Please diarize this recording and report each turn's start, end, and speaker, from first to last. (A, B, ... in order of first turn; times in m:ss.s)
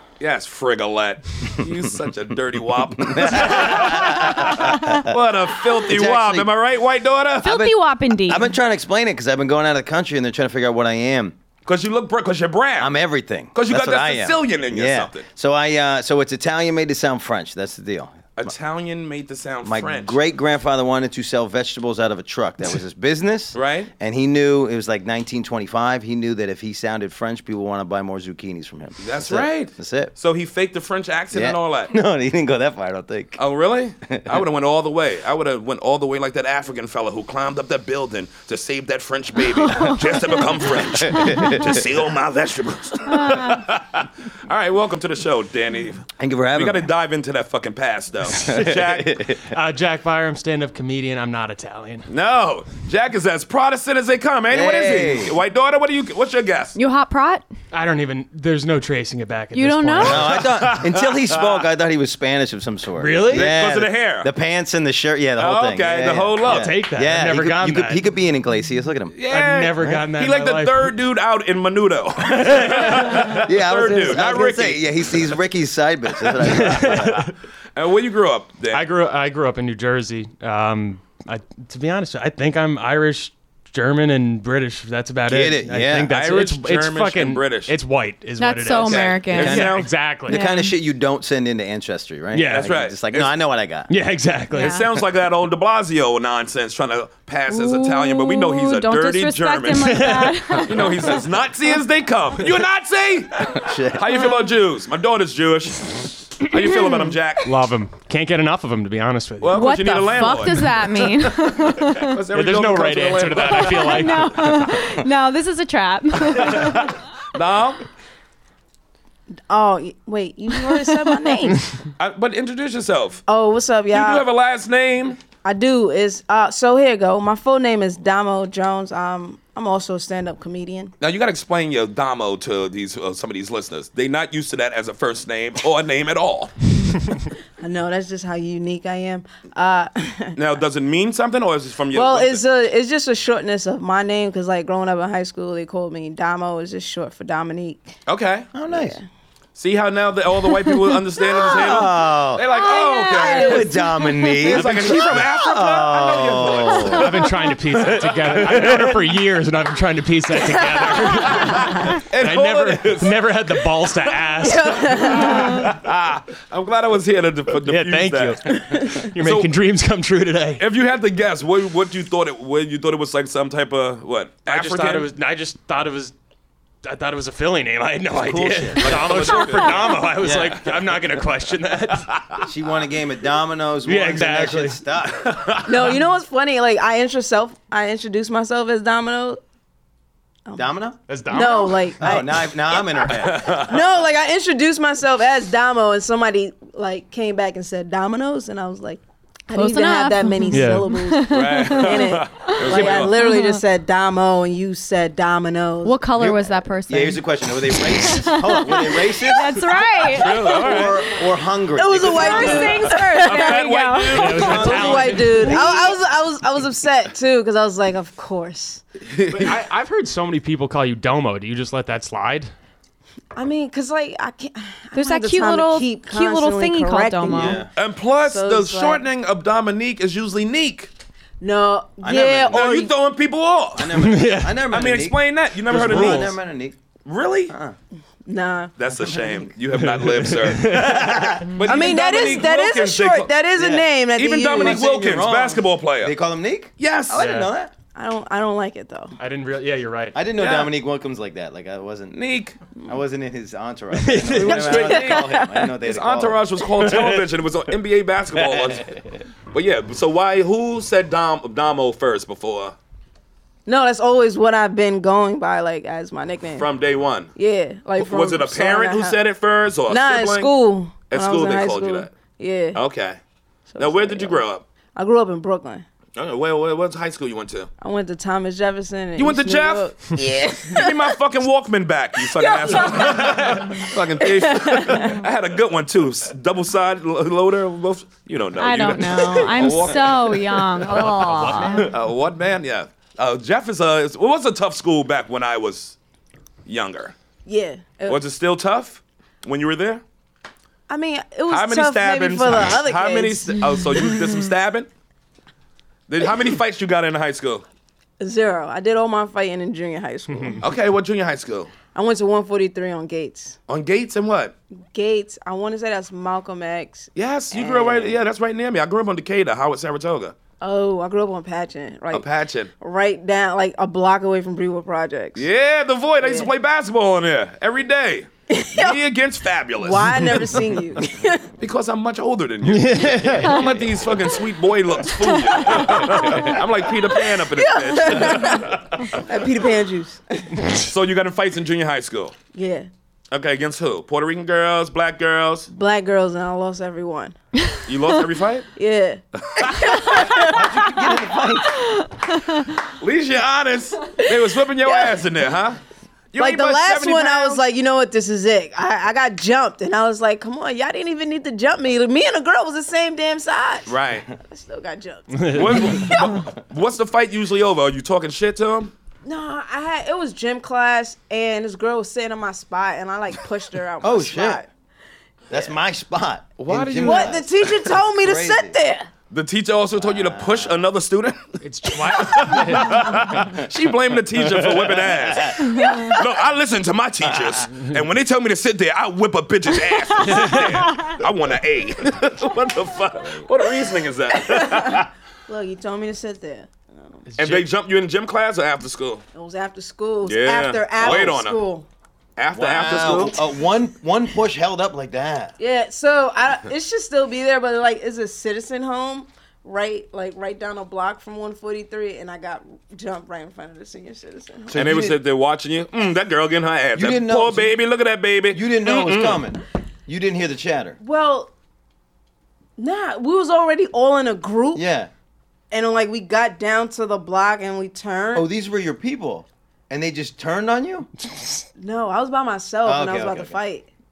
0:00.2-0:07.6 A
0:03.0-0:05.1 B
0:05.8-0:06.5 B
0:07.4-0:08.5 C
0:07.4-0:11.4 B
0:11.6-0:12.9 A
0:12.8-0:18.5 B
0:13.5-0:15.2 A
0:18.4-0:20.2 A
0:19.6-0:30.1 B
0:23.5-0:23.9 A
0:29.0-0:31.9 A
0:31.3-0:33.4 B
0:33.4-0:49.3 A
0:34.1-0:34.4 B
0:39.4-0:41.6 C
0:41.0-0:41.7 B
0:43.1-0:43.7 C
0:46.2-0:46.9 B
0:48.3-0:49.4 B
0:49.4-0:52.1 D
0:52.1-0:56.8 A
0:54.5-0:55.4 B
0:56.8-0:57.5 C
0:57.7-1:00.3 D
0:59.5-1:00.3 C
1:00.0-1:09.2 B
1:00.4-1:01.6 A
1:03.0-1:03.5 D
1:03.3-1:04.3 A
1:05.4-1:06.7 A
1:06.5-1:08.0 D
1:09.2-1:15.3 A
1:09.3-1:11.0 D
1:12.4-1:13.1 D
1:13.1-1:17.3 B
1:16.4-1:17.3 D
1:17.8-1:18.9 A
1:18.7-1:30.4 D
1:25.3-1:26.1 B
1:26.1-1:27.7 A
1:28.4-1:29.6 C
1:28.7-1:29.9 A
1:29.3-1:33.9 B
1:30.3-1:30.8 C
1:32.3-1:32.7 D
1:32.4-1:33.3 A
1:33.9-1:34.8 D
1:34.5-1:34.9 C
1:34.6-1:40.1 A
1:37.5-1:41.2 C
1:39.8-1:40.7 D
1:40.6-1:47.5 A
1:43.6-1:44.1 B
1:44.2-1:44.5 C
1:46.6-1:47.0 C
1:47.4-1:49.6 D
1:49.4-1:50.9 A
1:49.5-1:52.2 C
1:52.0-1:54.1 A
1:52.3-1:54.6 D
1:53.5-1:57.0 C
1:56.4-1:57.9 A
1:59.5-2:01.7 E
2:02.0-2:03.2 A
2:03.3-2:04.3 E
2:03.9-2:05.2 A
2:05.4-2:10.9 E
2:11.0-2:16.5 A
2:17.6-2:20.3 E
2:20.4-2:22.4 A
2:21.9-2:28.0 E
2:28.1-2:28.5 A
2:28.5-2:29.0 B
2:28.7-2:29.0 E
2:29.6-2:33.7 A
2:31.4-2:32.4 B
2:32.4-2:34.6 C
2:33.3-2:37.1 B
2:34.4-2:39.2 A
2:36.9-2:45.4 D
2:41.3-2:43.2 A
2:44.4-2:45.7 E
2:45.1-2:48.6 A
2:47.7-2:50.6 D
2:48.6-2:49.0 E
2:49.1-2:49.6 A
2:50.6-2:55.1 A
2:54.5-2:56.1 D
2:56.8-3:02.2 D
2:58.2-2:59.1 B
2:58.8-3:00.0 A
2:59.4-3:00.1 C
3:00.2-3:00.6 B
3:02.4-3:05.4 B
3:03.8-3:05.9 D
3:05.7-3:09.4 E
3:10.6-3:11.0 B
3:11.1-3:12.2 D
3:11.3-3:26.0 E
3:12.0-3:13.7 B
3:13.1-3:13.8 A
3:19.5-3:23.6 C
3:20.5-3:20.9 D
3:21.3-3:23.1 A
3:25.8-3:30.9 C
3:26.2-3:29.7 B
3:30.1-3:31.0 A
3:30.4-3:32.8 B
3:31.7-3:33.7 E
3:32.0-3:36.0 C
3:32.2-3:35.2 A
3:34.1-3:35.6 D
3:34.4-3:38.8 E
3:34.5-3:35.0 B
3:39.1-3:39.6 A
3:39.3-3:42.5 D
3:43.4-3:47.6 E
3:45.0-3:47.6 C
3:47.3-3:47.7 B
3:47.8-3:50.9 A
3:48.3-3:49.0 E
3:51.4-3:52.9 E
3:52.0-3:52.9 B
3:52.5-3:54.0 A
3:53.8-3:56.8 B
3:54.0-3:54.6 D
3:54.7-3:56.4 A
3:55.7-3:56.4 D
3:57.0-3:57.5 A
3:57.5-3:57.8 B
3:58.3-3:58.7 E
3:58.8-4:00.9 A
3:59.0-3:59.5 B
3:59.7-4:01.6 D
4:00.6-4:01.7 B
4:01.5-4:03.3 A
4:01.6-4:04.8 E
4:03.6-4:03.9 B
4:04.2-4:06.2 A
4:04.5-4:07.7 B
4:06.8-4:07.2 A
4:07.2-4:07.5 D
4:08.0-4:09.1 E
4:09.2-4:10.2 D
4:10.2-4:12.3 B
4:10.4-4:10.7 A
4:12.1-4:12.6 A
4:12.8-4:16.5 B
4:13.9-4:14.8 D
4:14.3-4:19.0 A
4:14.8-4:15.4 E
4:16.8-4:17.2 D
4:18.5-4:18.8 B
4:19.5-4:22.8 A
4:23.7-4:26.7 E
4:26.6-4:27.3 A
4:27.4-4:29.2 E
4:28.0-4:30.5 A
4:29.9-4:32.8 E
4:31.1-4:32.1 A
4:32.8-4:33.2 A
4:33.7-4:34.4 E
4:33.8-4:34.6 A
4:35.0-4:35.9 E
4:36.2-4:37.7 A
4:37.8-4:41.2 E
4:39.2-4:56.0 A
4:42.2-4:45.2 E
4:48.6-4:51.9 C
4:50.9-4:51.9 D
4:56.7-4:57.1 A
4:57.5-4:58.2 E
4:58.1-5:00.0 A
5:00.9-5:03.6 E
5:01.5-5:04.9 A
5:06.1-5:07.6 A
5:08.2-5:10.7 E
5:10.3-5:10.6 D
5:10.6-5:11.7 A
5:11.9-5:13.6 E
5:13.7-5:14.6 A
5:14.9-5:18.2 E
5:17.2-5:20.4 A
5:20.6-5:22.3 E
5:22.1-5:22.7 A
5:22.8-5:25.5 E
5:25.4-5:30.5 A
5:26.2-5:26.5 E
5:28.5-5:29.0 E
5:29.8-5:31.5 E
5:31.6-5:39.2 A
5:32.6-5:33.6 D
5:35.2-5:35.7 C
5:35.6-5:40.5 E
5:40.8-5:42.4 A
5:42.5-5:42.9 E
5:43.3-5:45.7 A
5:45.7-5:47.4 E
5:47.6-5:47.8 C
5:47.9-5:48.7 A
5:48.8-5:50.9 E
5:49.6-5:50.0 A
5:50.4-5:51.8 B
5:51.8-5:52.8 C
5:53.0-5:55.8 A
5:54.2-5:55.2 E
5:56.3-5:57.6 A
5:56.4-6:06.5 E
6:03.9-6:04.3 A
6:05.3-6:06.0 D
6:05.6-6:08.9 A
6:09.2-6:14.7 E
6:14.0-6:14.6 B
6:15.5-6:17.5 B
6:16.6-6:18.0 A
6:17.0-6:19.1 E
6:18.1-6:18.8 B
6:19.3-6:35.1 A
6:20.0-6:20.8 B
6:21.6-6:23.4 D
6:24.4-6:25.7 B
6:25.8-6:26.1 C
6:27.2-6:27.6 B
6:30.2-6:31.1 C
6:30.2-6:30.6 D
6:34.3-6:37.2 E
6:37.3-6:37.7 D
6:37.4-6:39.2 A
6:39.3-6:41.9 E
6:40.2-6:41.6 A
6:41.0-6:41.3 B
6:42.4-6:43.4 A
6:42.5-6:45.5 B
6:45.6-6:55.1 E
6:54.7-6:55.2 B
6:54.7-6:59.4 A
6:57.0-6:57.8 B
6:58.5-7:01.0 B
7:01.0-7:01.5 E
7:02.8-7:04.8 E
7:04.7-7:05.1 B
7:05.7-7:08.5 E
7:08.3-7:11.1 B
7:11.8-7:13.9 E
7:12.8-7:13.6 B